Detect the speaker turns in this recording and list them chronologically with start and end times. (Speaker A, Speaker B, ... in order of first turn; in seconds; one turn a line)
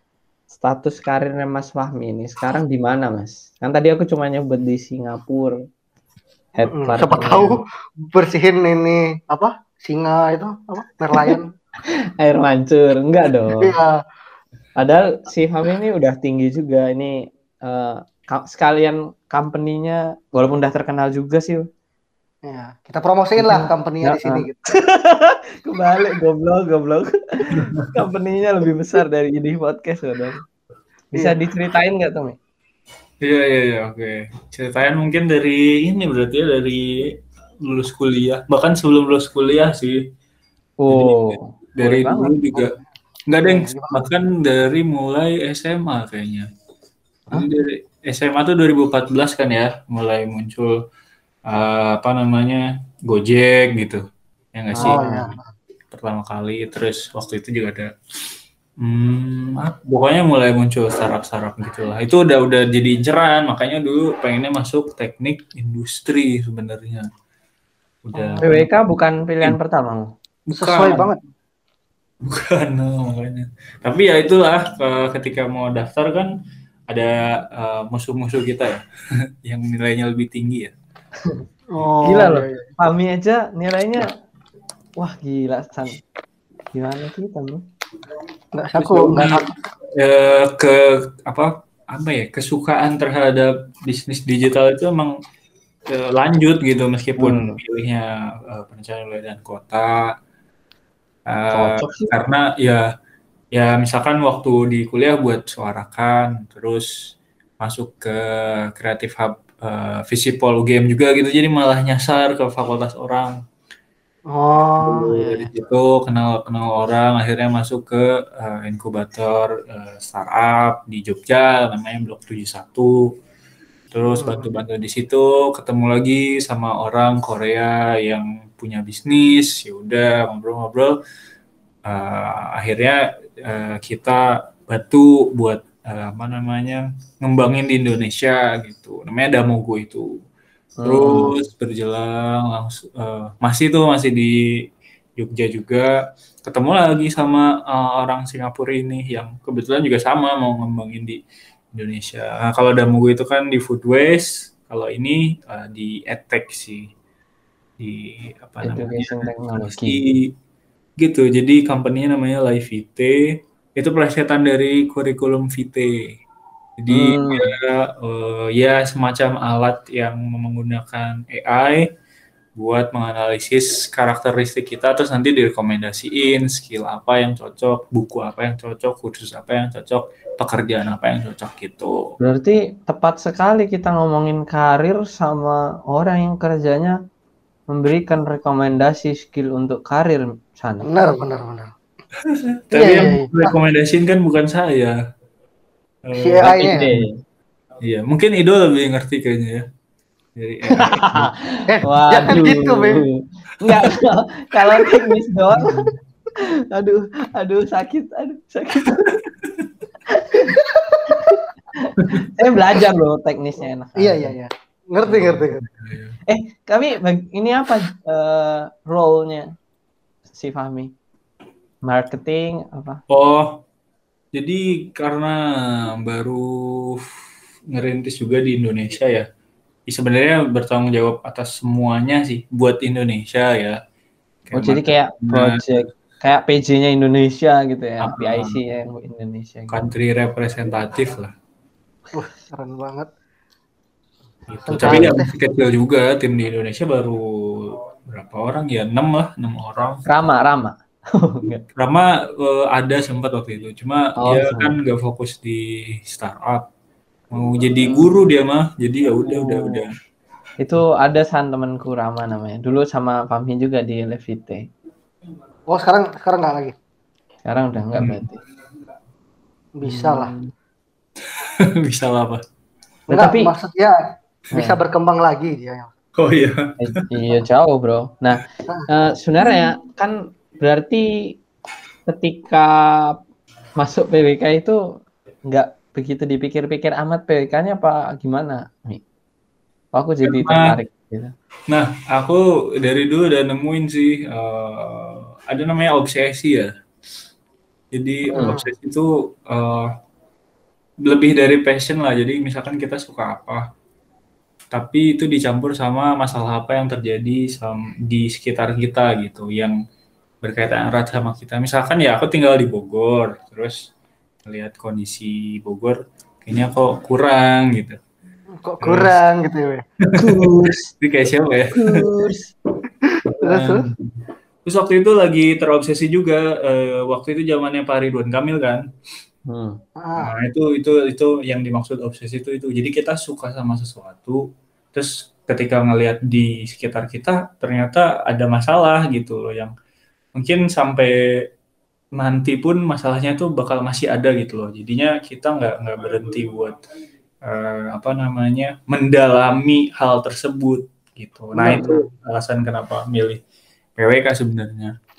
Speaker A: 0.5-5.5
Speaker A: 6.5-7.6
Speaker B: 6.7-11.5
Speaker A: 12.2-13.7
Speaker B: 13.6-14.0
Speaker A: 14.8-21.6
Speaker B: 22.4-24.7
Speaker A: 23.4-30.4
Speaker A: 31.1-32.4
Speaker C: 33.2-37.1
Speaker C: 37.6-40.0
Speaker A: 40.8-42.4
Speaker C: 40.9-42.7
Speaker B: 42.5-42.8
Speaker C: 43.3-46.5
Speaker B: 43.4-44.0
Speaker C: 47.3-50.7
Speaker C: 51.5-54.0
Speaker C: 54.5-55.0
Speaker A: 54.7-55.3
Speaker B: 54.8-55.4
Speaker C: 55.9-57.9
Speaker C: 58.8-67.0
Speaker C: 68.0-68.7
Speaker B: 68.1-68.5
Speaker A: 68.4-70.1
Speaker C: 70.5-71.1
Speaker B: 70.6-71.2
Speaker C: 72.3-76.3
Speaker C: 76.9-78.8
Speaker C: 79.4-80.7
Speaker B: 81.7-82.7
Speaker A: 82.0-84.1
Speaker A: 85.0-86.0
Speaker A: 86.7-87.6
Speaker B: 88.5-89.5
Speaker C: 88.8-89.4
Speaker C: 90.0-95.1
Speaker C: 95.9-100.0
Speaker A: 97.2-97.6
Speaker C: 101.3-102.8
Speaker A: 101.5-102.1
Speaker C: 103.5-106.9
Speaker C: 107.6-113.3
Speaker B: 114.3-115.1
Speaker C: 114.8-122.9
Speaker A: 115.1-115.5
Speaker C: 123.9-130.9
Speaker B: 124.2-124.5
Speaker C: 131.9-140.1
Speaker A: 140.8-141.3
Speaker C: 140.8-144.3
Speaker C: 145.2-145.9
Speaker C: 146.4-151.2
Speaker C: 151.7-156.9
Speaker C: 157.8-160.2
Speaker A: 158.6-160.0
Speaker C: 161.0-163.1
Speaker C: 163.8-165.9
Speaker C: 166.8-171.8
Speaker A: 166.9-167.5
Speaker C: 172.6-181.9
Speaker A: 182.2-186.9
Speaker A: 187.7-190.9
Speaker B: 190.8-191.7
Speaker C: 192.3-194.9
Speaker B: 192.7-193.5
Speaker C: 196.1-197.0
Speaker B: 196.2-196.9
Speaker A: 196.4-197.2
Speaker C: 197.8-199.6
Speaker C: 200.4-201.3
Speaker A: 200.8-205.8
Speaker B: 201.7-203.0
Speaker C: 205.5-205.9
Speaker A: 206.7-209.1
Speaker C: 209.0-209.7
Speaker A: 210.1-210.5
Speaker B: 210.9-211.3
Speaker A: 211.1-214.3
Speaker B: 213.9-215.6
Speaker C: 215.1-216.2
Speaker A: 216.3-219.5
Speaker A: 220.3-220.9
Speaker A: 221.8-223.0
Speaker C: 223.1-223.5
Speaker C: 224.3-225.3
Speaker C: 225.9-227.0
Speaker C: 227.7-229.2
Speaker C: 229.9-233.8
Speaker C: 234.5-235.6
Speaker A: 234.5-239.8
Speaker C: 238.0-238.6
Speaker C: 239.7-241.3
Speaker B: 242.1-243.1
Speaker C: 244.5-250.0
Speaker B: 244.7-245.3
Speaker A: 244.8-245.2
Speaker A: 250.1-251.6
Speaker C: 251.8-256.6
Speaker A: 254.2-254.8
Speaker C: 257.3-259.9
Speaker A: 257.8-258.1
Speaker A: 259.2-259.8
Speaker A: 260.6-264.6
Speaker B: 265.7-266.7
Speaker A: 267.4-268.4
Speaker C: 267.9-268.2
Speaker B: 269.8-270.3
Speaker A: 269.8-270.5
Speaker C: 271.8-272.4
Speaker A: 273.1-273.5
Speaker B: 273.1-274.0
Speaker B: 274.5-275.9
Speaker A: 274.5-274.8
Speaker C: 276.2-276.7
Speaker A: 276.8-281.1
Speaker A: 282.1-283.1
Speaker A: 283.8-284.8
Speaker A: 285.5-289.0
Speaker A: 289.9-291.3
Speaker C: 290.2-290.8
Speaker C: 291.7-296.7
Speaker C: 297.9-299.9
Speaker B: 298.3-298.7
Speaker C: 301.0-303.6
Speaker C: 304.7-309.7
Speaker C: 310.4-313.9
Speaker C: 314.4-318.0
Speaker B: 318.6-319.8
Speaker C: 318.8-319.2
Speaker C: 320.0-320.5
Speaker A: 320.2-320.9
Speaker C: 321.0-322.0
Speaker A: 321.7-322.5
Speaker C: 323.4-324.0
Speaker B: 323.4-323.9
Speaker C: 324.6-328.8
Speaker A: 329.5-329.8
Speaker B: 330.0-330.3
Speaker C: 330.2-334.4
Speaker C: 334.9-339.7
Speaker C: 340.4-341.1
Speaker C: 342.2-346.8
Speaker C: 347.4-353.4
Speaker B: 351.6-351.8
Speaker C: 354.0-354.9